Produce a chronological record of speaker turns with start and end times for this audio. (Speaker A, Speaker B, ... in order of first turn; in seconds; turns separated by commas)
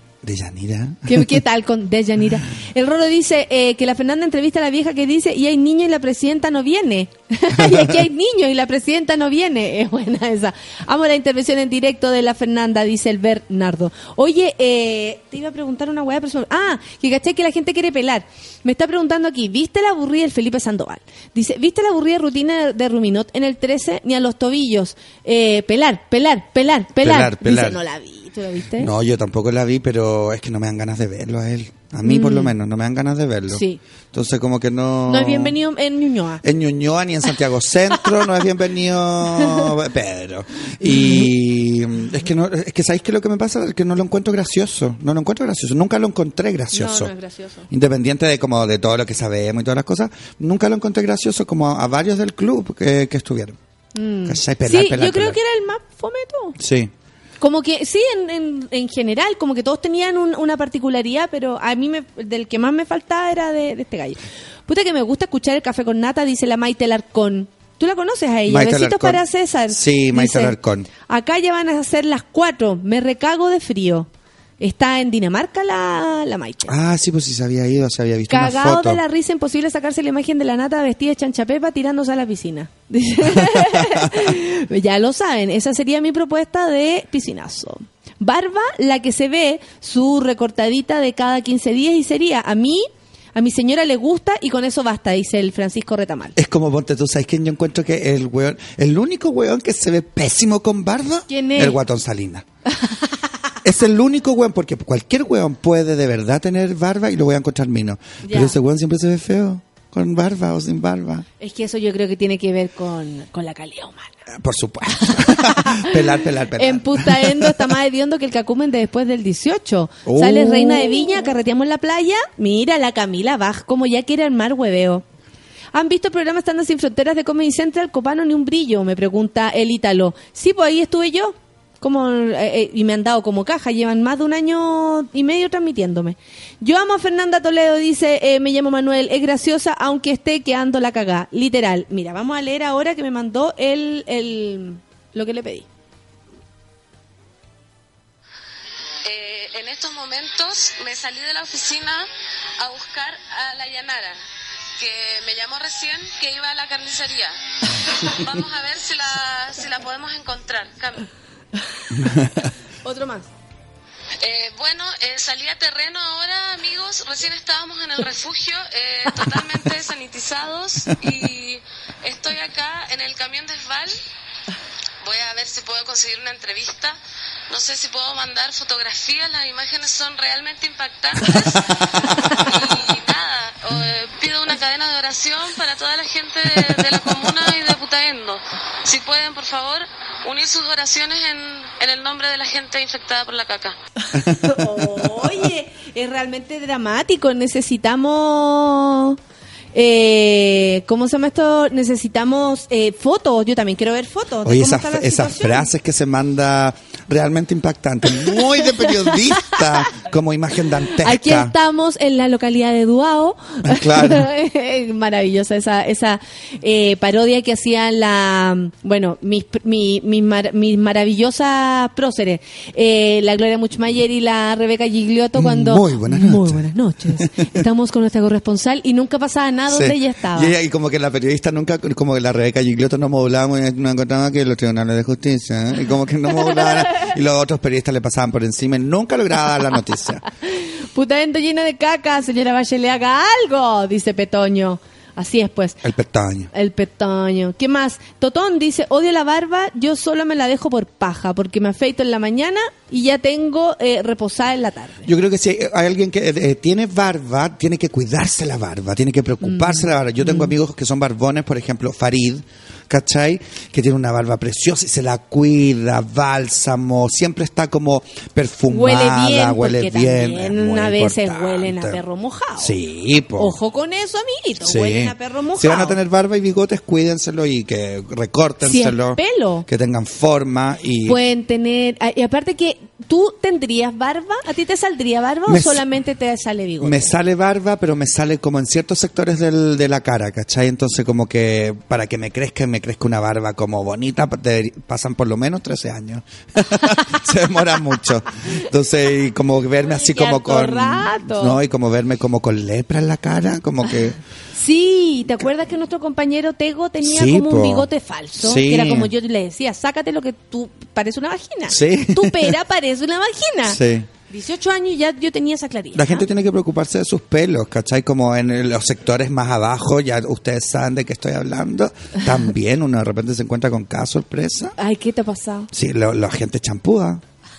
Speaker A: 0.2-1.4, Speaker B: 1.1-28.9, Speaker A: 27.0-27.8, Speaker A: 28.8-35.6, Speaker B: 32.0-32.5, Speaker B: 33.5-33.8, Speaker B: 35.1-36.4, Speaker A: 36.4-47.1, Speaker B: 39.4-39.7, Speaker B: 40.9-41.3, Speaker B: 46.7-47.7, Speaker A: 47.7-53.6, Speaker B: 53.9-56.5, Speaker A: 54.2-55.4, Speaker A: 56.6-56.9, Speaker B: 57.4-70.5, Speaker A: 68.5-70.9, Speaker B: 71.0-74.1, Speaker B: 74.6-76.7, Speaker A: 76.7-79.0, Speaker B: 78.3-96.3, Speaker A: 83.4-84.3, Speaker A: 96.3-102.4, Speaker B: 101.3-101.8, Speaker A: 103.6-111.2, Speaker B: 108.2-108.5, Speaker B: 111.4-114.2, Speaker A: 114.3-117.7, Speaker B: 114.9-116.0, Speaker B: 116.6-125.0, Speaker A: 120.0-121.2, Speaker B: 125.7-145.7, Speaker C: 149.0-152.1, Speaker C: 152.6-154.2, Speaker C: 154.8-157.4, Speaker C: 158.0-161.1, Speaker A: 161.9-162.5, Speaker B: 162.8-163.3, Speaker C: 164.2-174.0, Speaker C: 175.0-177.0, Speaker C: 177.5-193.8, Speaker A: 181.4-182.5, Speaker A: 186.6-187.1, Speaker A: 194.1-195.3, Speaker B: 194.4-199.2, Speaker B: 199.7-205.7, Speaker A: 204.4-211.5, Speaker B: 208.1-209.6, Speaker B: 211.0-230.5, Speaker A: 213.6-214.3, Speaker A: 225.3-226.6, Speaker A: 227.2-227.5, Speaker A: 229.7-240.2, Speaker B: 236.4-237.0, Speaker B: 240.5-245.8, Speaker A: 245.8-246.5, Speaker B: 246.5-255.1, Speaker A: 255.0-272.0, Speaker B: 259.4-260.5, Speaker B: 268.7-272.7, Speaker A: 272.6-273.5, Speaker B: 273.4-276.0, Speaker A: 274.6-281.2, Speaker B: 278.6-279.7, Speaker B: 281.1-287.1, Speaker A: 285.5-285.8, Speaker A: 286.8-304.2, Speaker B: 299.9-301.6, Speaker B: 304.6-313.8, Speaker A: 307.0-307.9, Speaker A: 308.4-309.1, Speaker A: 311.7-312.5, Speaker A: 313.6-314.1, Speaker B: 314.3-316.3, Speaker A: 315.9-324.7, Speaker B: 324.8-325.7, Speaker A: 325.7-327.2